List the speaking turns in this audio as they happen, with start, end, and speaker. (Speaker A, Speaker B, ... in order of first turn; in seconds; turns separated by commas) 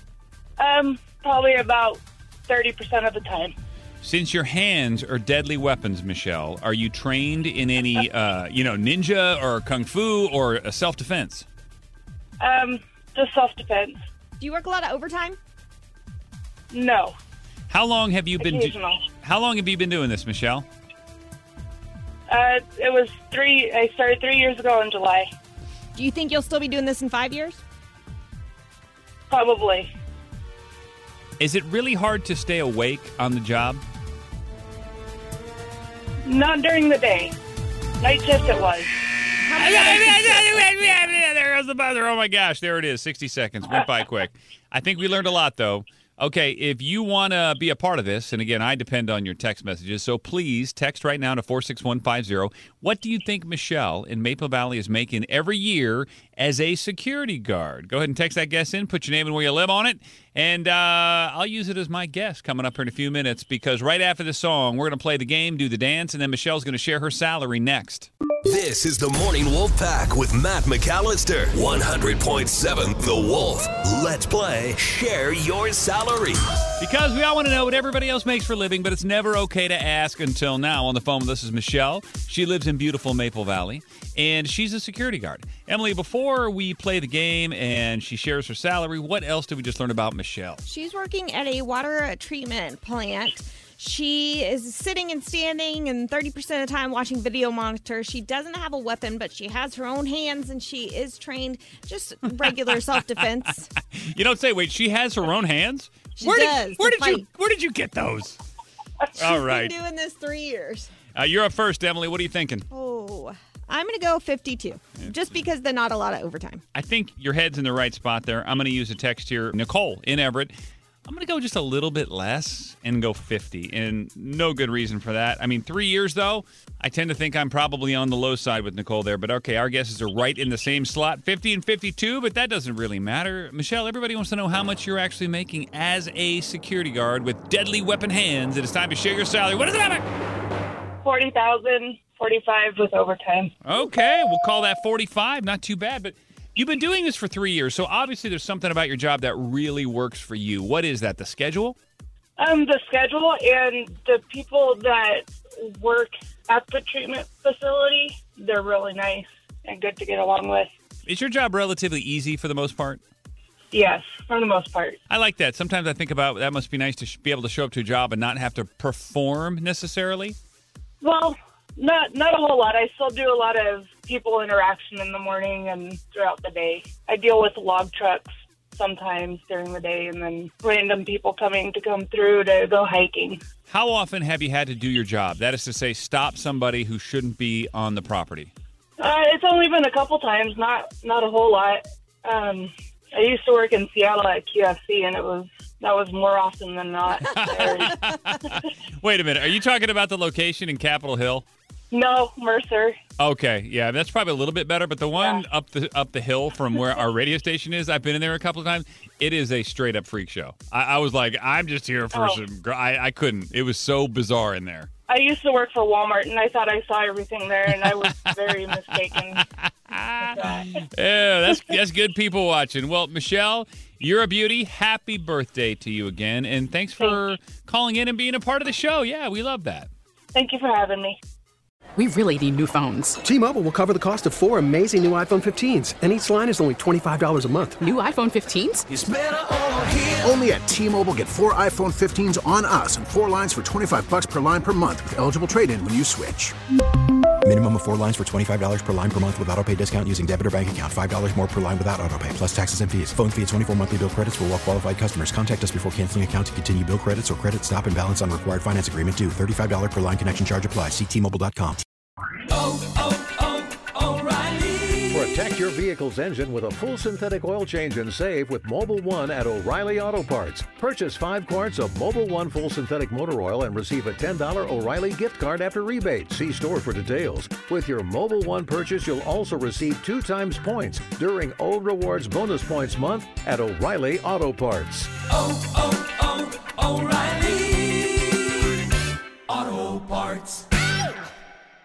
Speaker A: 0.6-3.5, Speaker B: 4.0-11.5, Speaker A: 12.4-14.0, Speaker C: 14.4-15.4, Speaker A: 16.7-17.1, Speaker B: 17.7-20.6, Speaker A: 18.4-19.0, Speaker A: 22.3-25.3, Speaker C: 25.9-27.6, Speaker A: 29.3-29.9, Speaker B: 31.4-33.8, Speaker A: 36.2-37.4, Speaker A: 38.0-38.9, Speaker C: 39.4-40.7, Speaker B: 39.6-68.1, Speaker D: 68.5-76.4, Speaker B: 76.8-90.6, Speaker C: 90.7-103.7, Speaker B: 103.9-108.4, Speaker C: 106.2-107.2, Speaker B: 109.2-109.7, Speaker C: 109.2-110.9, Speaker B: 111.2-112.7, Speaker C: 112.7-116.6, Speaker B: 116.8-120.5, Speaker B: 121.1-140.0, Speaker A: 141.0-143.5, Speaker B: 143.7-151.8, Speaker A: 152.4-160.7, Speaker B: 161.1-163.0, Speaker A: 163.7-165.0, Speaker B: 165.1-170.4, Speaker A: 171.0-183.4, Speaker B: 183.7-188.5, Speaker A: 189.0-197.9, Speaker B: 197.2-201.5, Speaker A: 201.9-203.0, Speaker B: 203.2-214.9, Speaker A: 205.2-205.4, Speaker A: 212.1-212.4, Speaker A: 215.1-219.4, Speaker B: 217.8-219.4, Speaker B: 219.9-229.9, Speaker A: 220.3-220.6, Speaker A: 230.3-231.2, Speaker E: 232.0-233.2, Speaker F: 233.2-237.8, Speaker E: 237.8-238.9, Speaker G: 238.9-246.6, Speaker H: 247.4-261.8, Speaker D: 264.0-264.9, Speaker I: 265.1-285.1, Speaker D: 286.7-287.8, Speaker D: 289.5-290.4